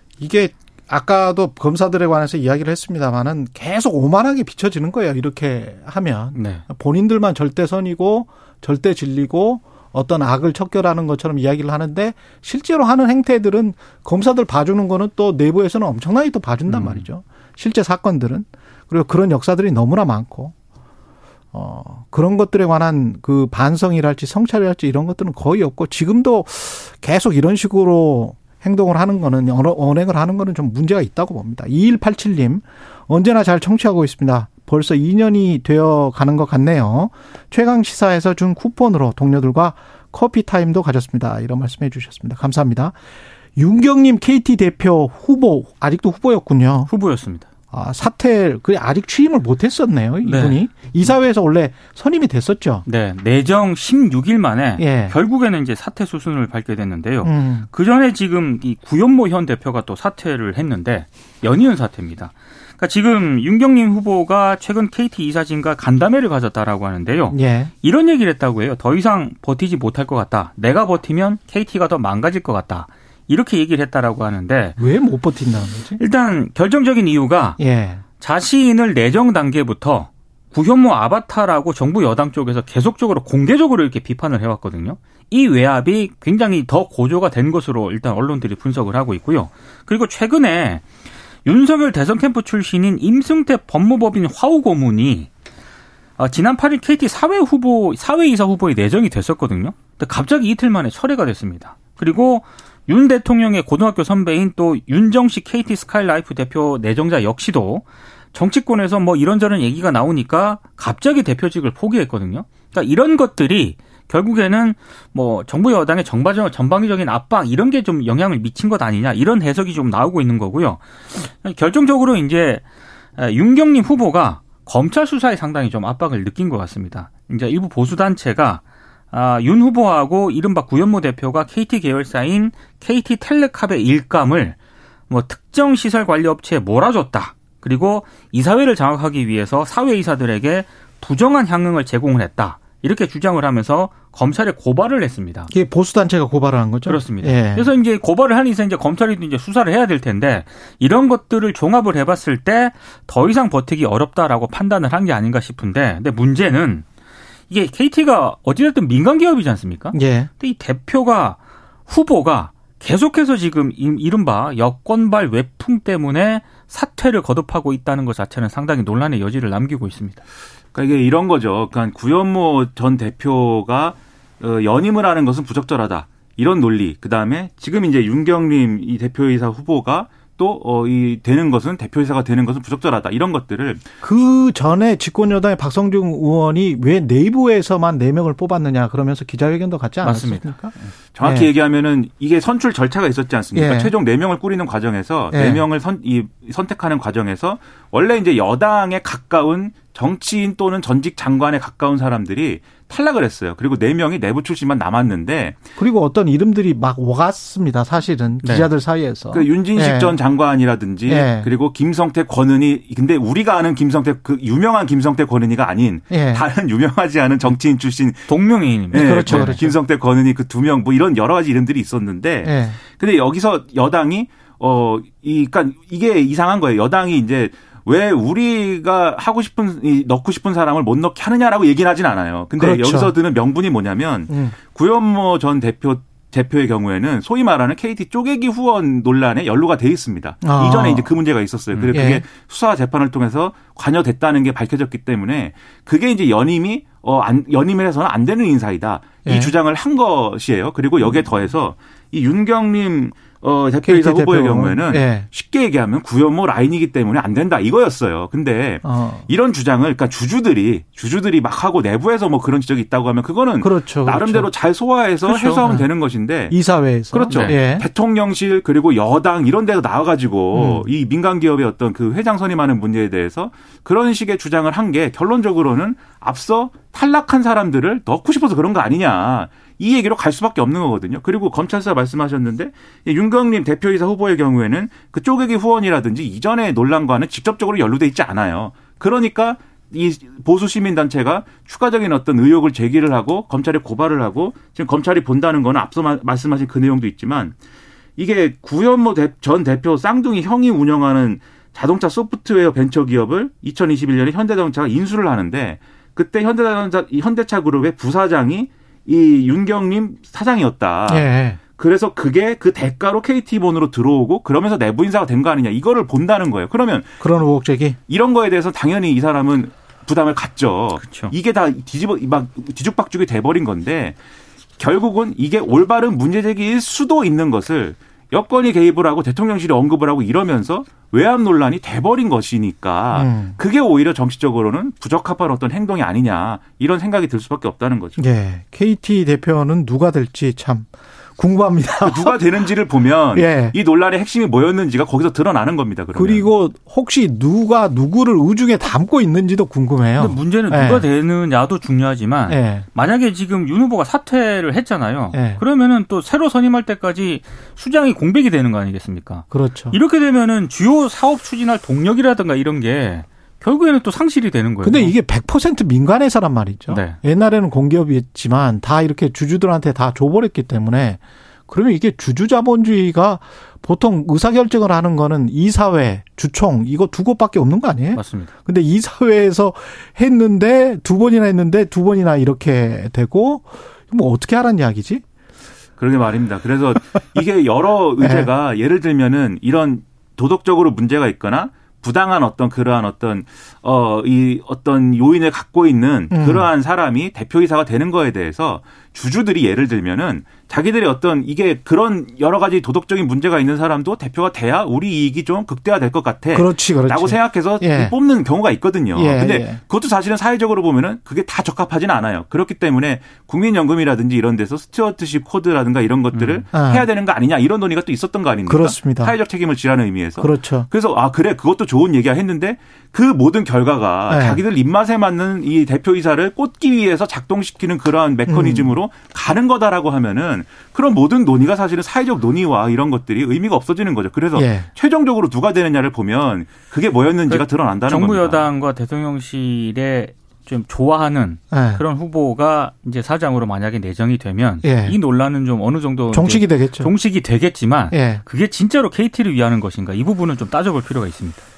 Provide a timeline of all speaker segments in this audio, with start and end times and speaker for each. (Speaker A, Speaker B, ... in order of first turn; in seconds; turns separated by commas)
Speaker A: 0.2-20.5, Speaker B: 6.3-6.6, Speaker B: 16.7-17.1, Speaker A: 21.5-43.0, Speaker A: 43.5-46.9, Speaker B: 46.9-47.5, Speaker A: 47.7-52.8, Speaker B: 50.2-50.6, Speaker B: 52.9-74.8, Speaker A: 54.8-55.2, Speaker A: 57.2-57.7, Speaker A: 67.3-67.7, Speaker A: 74.8-76.0, Speaker B: 76.0-77.6, Speaker A: 77.6-78.0, Speaker B: 78.2-90.8, Speaker B: 91.4-95.3, Speaker B: 96.2-122.6, Speaker B: 123.2-134.6, Speaker B: 135.1-145.5, Speaker A: 145.5-147.7, Speaker B: 146.8-156.8, Speaker B: 157.5-170.2, Speaker A: 159.9-160.3, Speaker C: 170.7-183.8, Speaker A: 184.0-191.5, Speaker B: 190.0-190.9, Speaker C: 191.1-205.6, Speaker A: 193.5-193.9, Speaker A: 195.3-195.6, Speaker A: 205.8-210.2, Speaker B: 208.4-208.7, Speaker C: 209.3-266.6, Speaker A: 211.1-211.5, Speaker A: 216.1-216.4, Speaker B: 218.3-219.6, Speaker A: 218.9-219.7, Speaker A: 222.4-222.8, Speaker A: 232.6-233.1, Speaker A: 234.3-234.5, Speaker A: 240.4-241.1, Speaker A: 241.9-242.2, Speaker A: 249.2-249.5, Speaker A: 253.8-255.3, Speaker A: 258.8-259.2, Speaker A: 263.6-264.5, Speaker A: 265.2-265.9, Speaker A: 266.5-267.9, Speaker C: 267.1-297.5, Speaker B: 267.3-267.6, Speaker A: 270.5-270.9, Speaker C: 298.2-317.1, Speaker A: 311.1-311.6, Speaker A: 317.2-318.0, Speaker C: 318.1-324.1, Speaker B: 321.0-321.3, Speaker C: 324.8-338.2, Speaker A: 333.1-333.6, Speaker A: 338.2-342.4, Speaker C: 342.0-346.5, Speaker A: 343.3-343.7, Speaker A: 346.1-351.1, Speaker B: 350.2-365.1, Speaker A: 352.5-352.9, Speaker A: 355.3-355.6, Speaker A: 359.5-360.0, Speaker A: 364.8-385.2, Speaker B: 366.9-367.2, Speaker B: 378.1-378.5, Speaker C: 386.0-438.6, Speaker A: 388.2-388.5, Speaker A: 396.3-396.7, Speaker A: 406.5-408.1, Speaker A: 409.1-409.8, Speaker B: 416.3-416.6, Speaker A: 416.7-417.1, Speaker A: 418.6-419.3, Speaker A: 420.4-420.9, Speaker A: 424.3-424.6, Speaker A: 428.5-428.9, Speaker A: 434.5-434.9, Speaker B: 437.5-451.6, Speaker A: 441.7-442.0, Speaker A: 444.8-445.2, Speaker A: 446.3-447.1, Speaker A: 448.1-448.4